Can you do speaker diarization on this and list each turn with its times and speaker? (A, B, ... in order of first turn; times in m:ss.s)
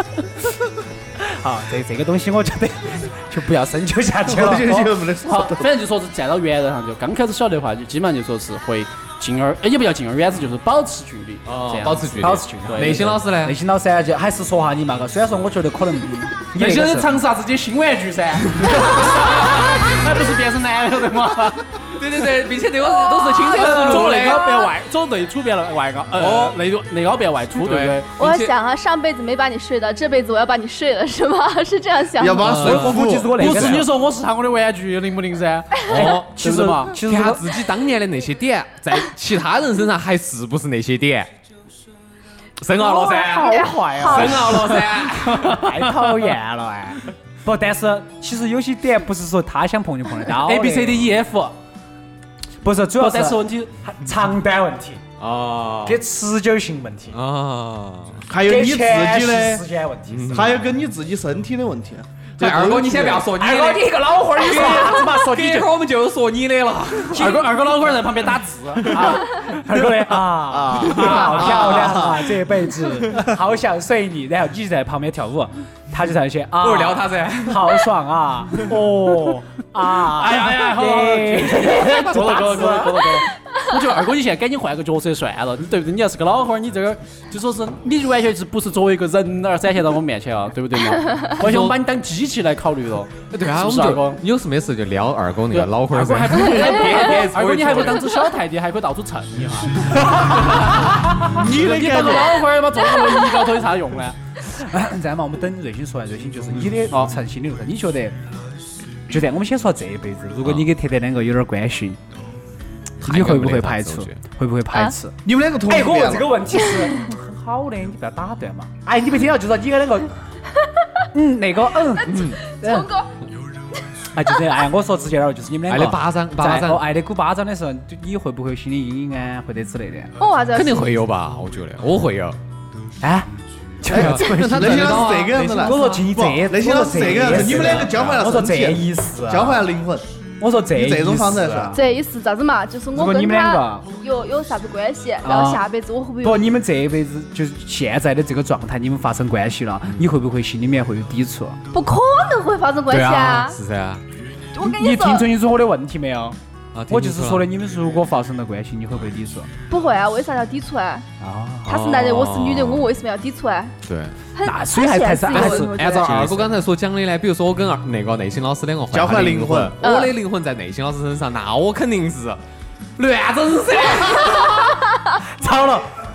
0:01.2-0:04.9 A
0:04.2-0:05.7 B
0:05.2-0:13.1 C
0:11.4-0:13.6 D
0:12.2-0:17.1 A
0:16.5-0:21.6 C
0:21.9-0:24.4 D
0:22.8-0:24.7 E
0:23.5-0:28.1 C
0:26.1-0:26.6 D
0:27.6-0:28.5 D
0:28.2-0:32.7 E
0:32.2-0:33.4 B
0:32.4-0:33.8 D
0:32.4-0:33.9 A
0:33.4-0:37.0 C
0:35.9-0:36.4 D
0:35.9-0:37.4 A
0:36.9-0:41.3 D
0:42.6-0:45.6 D
0:42.8-0:44.7 A
0:43.0-0:44.6 E
0:45.1-0:46.1 C
0:45.5-0:51.1 A
0:50.3-0:51.5 C
0:52.6-0:55.0 A
0:53.0-0:53.7 C
0:55.2-0:56.0 D
0:55.8-0:57.2 A
0:57.1-0:58.3 D
0:58.3-0:59.6 B
0:58.4-1:00.6 A
1:00.1-1:00.5 D
1:00.3-1:03.3 B
1:02.4-1:07.5 D
1:03.0-1:05.7 A
1:07.1-1:09.5 C
1:08.9-1:23.0 A
1:10.4-1:12.3 B
1:10.9-1:11.6 D
1:16.6-1:17.9 D
1:20.0-1:34.2 C
1:21.8-1:22.8 D
1:22.5-1:23.0 B
1:31.4-1:31.7 D
1:33.3-1:38.1 D
1:35.5-1:44.2 C
1:36.6-1:37.1 E
1:41.3-1:42.5 B
1:43.0-1:43.5 E
1:44.4-1:48.2 A
1:46.9-1:47.2 C
1:49.1-1:52.0 A
1:50.4-1:50.7 D
1:53.0-1:54.2 D
1:53.0-2:00.1 A
1:55.2-1:56.4 B
2:00.6-2:00.8 E
2:01.1-2:02.9 A
2:02.0-2:03.2 E
2:02.0-2:02.4 D
2:04.1-2:10.1 A
2:05.7-2:06.9 D
2:10.2-2:11.0 E
2:10.5-2:12.4 D
2:13.0-2:13.3 A
2:13.8-2:19.6 A
2:13.9-2:15.9 D
2:13.9-2:20.1 B
2:17.2-2:18.2 D
2:20.4-2:21.8 A
2:20.7-2:21.7 B
2:21.7-2:26.4 E
2:22.9-2:23.9 A
2:25.2-2:25.6 A
2:26.2-2:31.6 A
2:29.8-2:30.1 D
2:31.7-2:33.6 E
2:32.9-2:34.0 D
2:34.5-2:35.3 E
2:34.6-2:36.4 A
2:36.7-2:37.5 D
2:36.9-2:39.5 A
2:39.7-2:41.1 E
2:41.2-2:41.8 A
2:41.6-2:42.9 D
2:41.6-2:43.8 E
2:43.8-2:44.1 D
2:44.3-2:46.3 E
2:44.4-2:46.5 A
2:45.3-2:52.4 D
2:48.9-2:49.8 B
2:49.8-2:50.1 E
2:53.0-2:54.7 D
2:55.2-2:56.0 A